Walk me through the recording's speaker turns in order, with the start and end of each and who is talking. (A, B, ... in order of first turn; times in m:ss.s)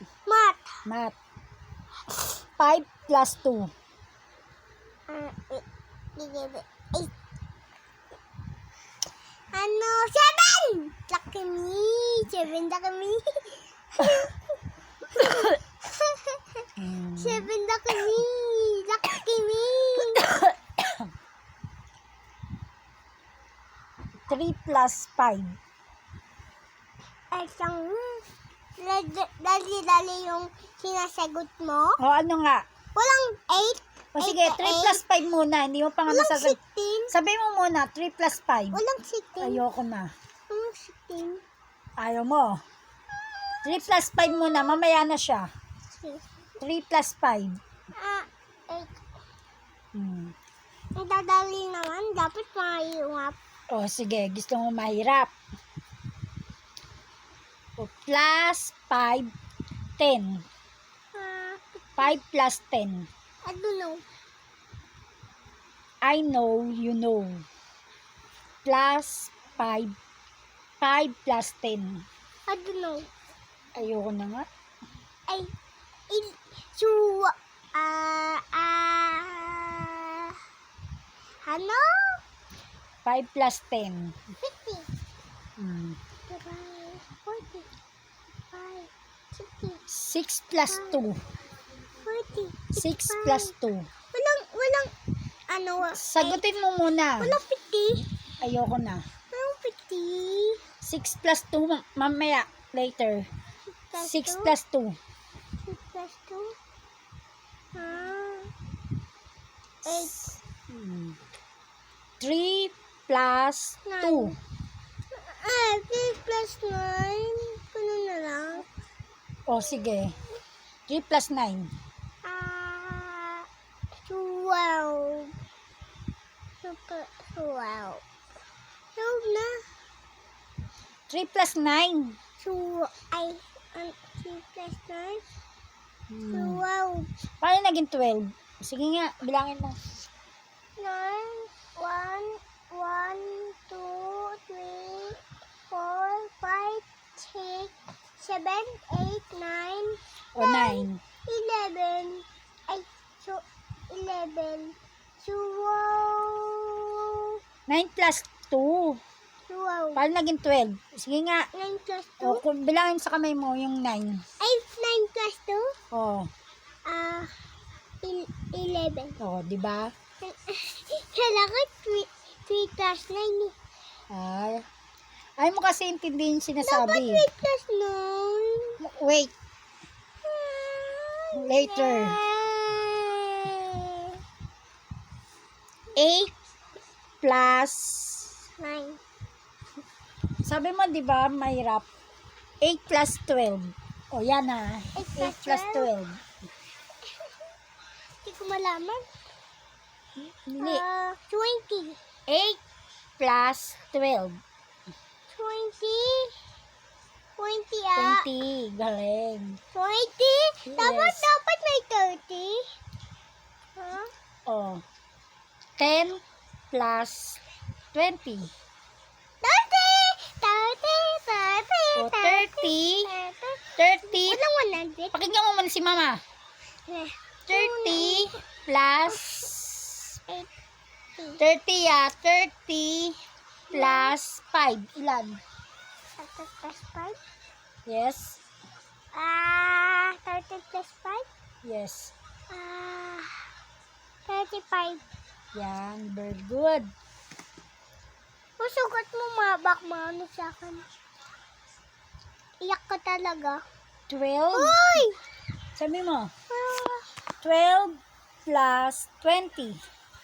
0:00.3-0:00.8 A
0:00.8-0:01.2 B
0:02.6-0:03.7 B
0:05.1-0:05.6 A
0:06.2-0:07.1 A
0:09.5-0:14.4 A
0:15.1-0:20.2 A
0:16.8-0:17.5 B
0:20.1-0:21.1 B
0:24.3-0:25.6 B
0:27.3-0:28.3 A
0:28.8-0:32.0 A
0:32.0-0:32.6 B
0:33.0-0:35.0 A
0:34.2-0:36.6 B
0:36.1-0:37.1 A
0:37.1-0:38.8 B
0:38.7-0:39.6 A
0:39.4-0:40.1 B
0:40.5-0:41.4 A
0:42.0-0:42.6 B
0:43.6-0:45.5 B
0:45.9-0:46.3 A
0:46.6-0:47.6 B
0:48.0-0:49.0 A
0:49.9-0:50.3 B
0:51.0-0:53.4 A
0:53.7-0:55.3 B
0:57.8-0:59.3 B
1:00.0-1:00.4 B
1:01.1-1:02.1 A
1:02.0-1:03.1 B
1:03.4-1:04.0 A
1:06.0-1:07.5 B
1:08.6-1:10.0 B
1:10.8-1:12.1 B
1:12.5-1:13.1 A
1:13.8-1:14.5 B
1:16.1-1:20.4 A
1:21.4-1:22.2 A
1:23.0-1:24.2 B
1:24.4-1:24.9 A
1:25.6-1:26.0 B
1:26.3-1:27.7 A
1:28.5-1:29.8 A
1:29.9-1:31.2 B
1:30.7-1:31.1 A
1:32.0-1:33.5 A
1:32.8-1:33.9 B
1:34.1-1:34.9 A
1:35.5-1:36.4 A
1:35.9-1:37.4 B
1:37.2-1:38.1 A
1:38.4-1:39.0 B
1:39.3-1:40.6 A
1:40.8-1:43.3 B
1:43.9-1:44.5 A
1:44.0-1:45.0 B
1:45.6-1:46.6 A
1:47.7-1:48.5 A
1:49.8-1:50.4 A
1:50.7-1:51.2 B
1:52.2-1:54.4 B
1:53.9-1:54.4 A
1:55.1-1:58.7 A
1:59.5-2:00.2 B
2:00.9-2:01.7 B
2:02.2-2:03.5 A
2:04.1-2:05.4 A
2:06.6-2:08.0 A
2:09.0-2:09.6 A
2:11.1-2:12.2 B
2:12.4-2:15.2 A
2:16.1-2:16.6 B
2:16.3-2:17.1 A
2:17.4-2:19.8 B
2:20.8-2:37.4 A
2:30.4-2:31.0 B
2:37.7-2:39.0 B
2:39.5-2:40.0 A
2:40.0-2:41.5 B
2:41.5-2:42.4 A
2:42.2-2:44.2 B
2:44.4-2:45.7 A
2:45.9-2:46.3 B
2:46.9-2:47.3 A
2:48.0-2:49.2 A
2:49.2-2:49.9 B
2:50.2-2:53.6 A
2:54.1-2:54.6 B
2:55.4-2:57.3 B
2:56.6-2:58.8 A
2:58.8-2:59.3 B
3:00.2-3:04.2 A
3:01.4-3:02.2 B
3:06.0-3:06.3 B
3:07.2-3:08.3 B
3:08.6-3:09.0 A
3:10.4-3:11.9 B
3:12.6-3:16.2 B
3:15.0-3:15.9 A
3:17.0-3:17.3 A
3:18.2-3:19.1 A
3:20.2-3:20.8 B
3:20.6-3:22.0 A
3:22.3-3:22.6 B
3:23.2-3:24.4 B
3:25.3-3:26.4 A
3:27.4-3:28.3 A
3:28.0-3:29.6 B
3:29.7-3:32.7 A
3:30.7-3:31.3 B
3:33.8-3:34.1 A
3:34.5-3:34.8 B
3:35.8-3:37.4 B
3:37.9-3:38.5 B
3:39.4-3:45.2 A
3:42.0-3:43.1 B
3:43.8-3:44.4 B
3:45.1-3:46.2 B
3:46.9-3:48.4 A
3:47.5-3:50.2 B
3:49.1-3:49.5 A
3:51.4-3:53.2 B
3:53.7-3:54.2 A
3:53.7-3:55.4 B
3:56.2-3:57.2 A
3:57.9-3:58.4 B
3:59.1-4:01.3 A
4:01.6-4:02.1 B
4:02.5-4:03.5 A
4:04.3-4:05.0 A
4:05.5-4:06.9 B
4:08.6-4:10.9 A
4:12.6-4:13.6 A
4:14.1-4:15.0 B
4:14.5-4:15.2 A
4:15.8-4:16.3 B
4:16.5-4:17.1 A
4:17.4-4:19.8 B